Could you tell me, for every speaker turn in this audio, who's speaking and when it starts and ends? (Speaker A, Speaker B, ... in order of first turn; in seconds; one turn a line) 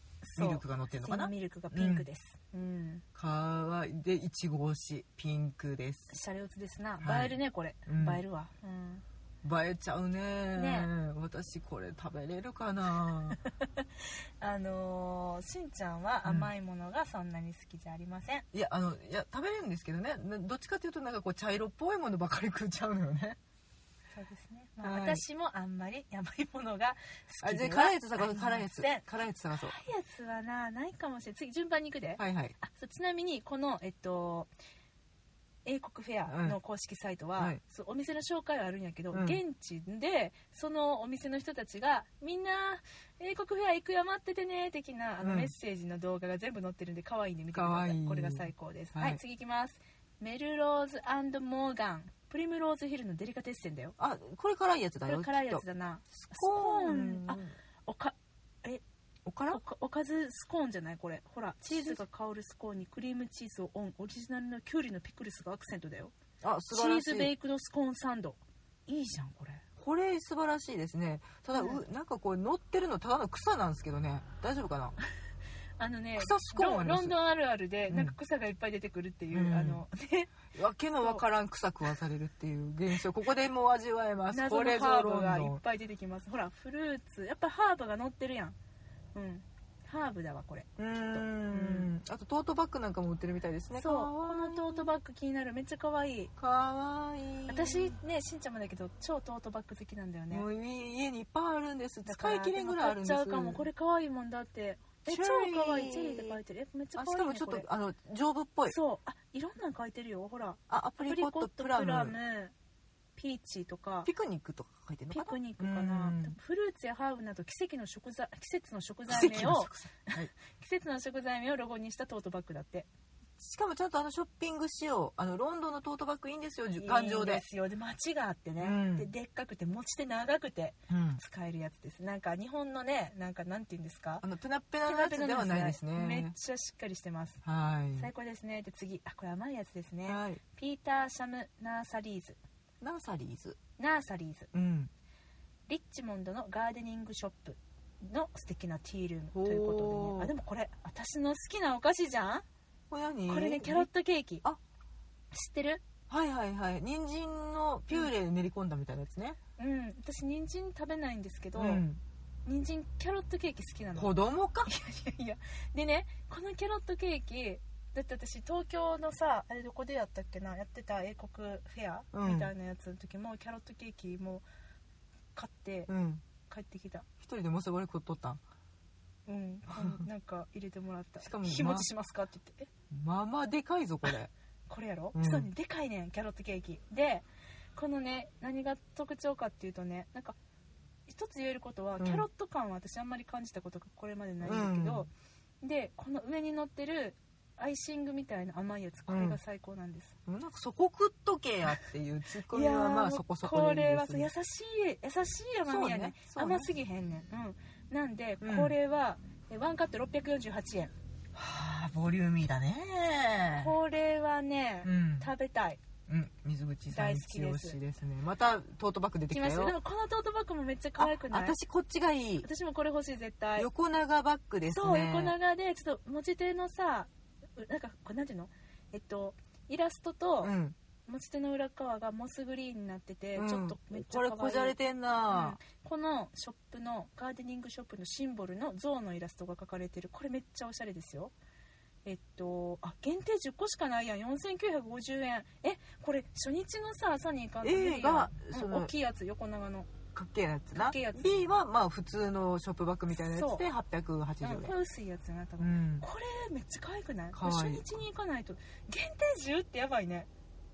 Speaker A: 0.2-3.0
Speaker B: 0.4-2.1
Speaker B: 3.1-6.1
Speaker A: 6.1-9.0
Speaker B: 7.0-8.2
Speaker B: 9.4-13.4
Speaker A: 10.6-10.9
Speaker A: 13.4-18.5
Speaker B: 18.5-23.4
Speaker A: 24.1-34.5
Speaker B: 24.8-25.2
Speaker B: 27.4-29.8
Speaker B: 32.2-32.5
Speaker A: 35.6-54.0
Speaker B: 36.3-36.6
Speaker B: 39.1-39.4
Speaker B: 45.2-45.5
Speaker B: 47.5-49.2
Speaker B: 54.0-55.6
Speaker A: 55.1-58.8
Speaker B: 56.2-57.5
Speaker B: 59.3-59.6
Speaker A: 59.5-66.1
Speaker B: 61.6-62.0
Speaker B: 66.4-67.3
Speaker A: 66.7-69.6
Speaker B: 69.8-75.0
Speaker A: 71.6-71.8
Speaker A: 75.8-80.4
Speaker B: 76.2-77.2
Speaker B: 77.9-78.1
Speaker B: 79.3-79.8
Speaker B: 80.5-85.6
Speaker A: 84.3-88.6
Speaker A: 89.2-91.9
Speaker B: 90.8-94.9
Speaker A: 93.8-96.3
Speaker B: 96.4-98.0
Speaker A: 97.5-100.5
Speaker B: 100.3-103.7
Speaker A: 102.1-107.7
Speaker B: 105.1-106.4
Speaker B: 107.0-108.8
Speaker A: 108.7-112.5
Speaker B: 110.7-112.2
Speaker A: 113.2-114.1
Speaker B: 114.0-116.4
Speaker A: 115.1-122.9
Speaker B: 119.1-120.3
Speaker B: 123.4-127.4
Speaker A: 126.8-134.2
Speaker B: 128.6-129.1
Speaker B: 130.9-131.2
Speaker B: 134.2-136.3
Speaker A: 134.8-137.4
Speaker B: 137.4-138.1
Speaker A: 137.9-142.4
Speaker B: 140.1-140.4
Speaker B: 142.8-143.6
Speaker A: 143.8-144.5
Speaker B: 144.5-144.9
Speaker A: 145.7-152.4
Speaker B: 149.3-150.3
Speaker B: 152.9-153.9
Speaker A: 153.3-154.4
Speaker A: 155.3-155.8
Speaker B: 156.1-159.4
Speaker A: 159.6-161.8
Speaker B: 161.6-162.0
Speaker A: 162.5-164.1
Speaker B: 164.0-164.7
Speaker A: 164.7-174.4
Speaker B: 172.1-172.5
Speaker A: 175.3-175.9
Speaker B: 175.9-176.2
Speaker A: 176.5-177.1
Speaker B: 177.2-178.4
Speaker A: 179.3-182.7
Speaker B: 181.2-181.9
Speaker B: 182.9-184.3
Speaker A: 184.7-190.4
Speaker B: 185.2-185.5
Speaker A: 191.1-195.1
Speaker B: 192.0-192.3
Speaker B: 194.4-195.1
Speaker A: 195.6-200.2
Speaker B: 199.1-199.4
Speaker B: 200.3-204.3
Speaker A: 202.5-210.9
Speaker B: 205.7-206.7
Speaker B: 208.4-208.8
Speaker B: 211.3-213.7
Speaker A: 213.6-215.8
Speaker B: 214.8-215.3
Speaker B: 216.1-219.8
Speaker A: 216.9-217.8
Speaker A: 219.3-221.6
Speaker B: 221.0-222.5
Speaker A: 222.4-223.7
Speaker B: 223.6-225.4
Speaker A: 224.7-230.5
Speaker B: 230.4-230.8
Speaker A: 231.1-234.8
Speaker B: 233.4-235.6
Speaker A: 235.3-241.3
Speaker A: 242.1-249.9
Speaker B: 247.6-248.9
Speaker B: 250.2-254.7
Speaker A: 250.7-251.5
Speaker A: 253.2-253.7
Speaker A: 254.4-260.3
Speaker B: 255.6-256.1
Speaker B: 257.3-257.9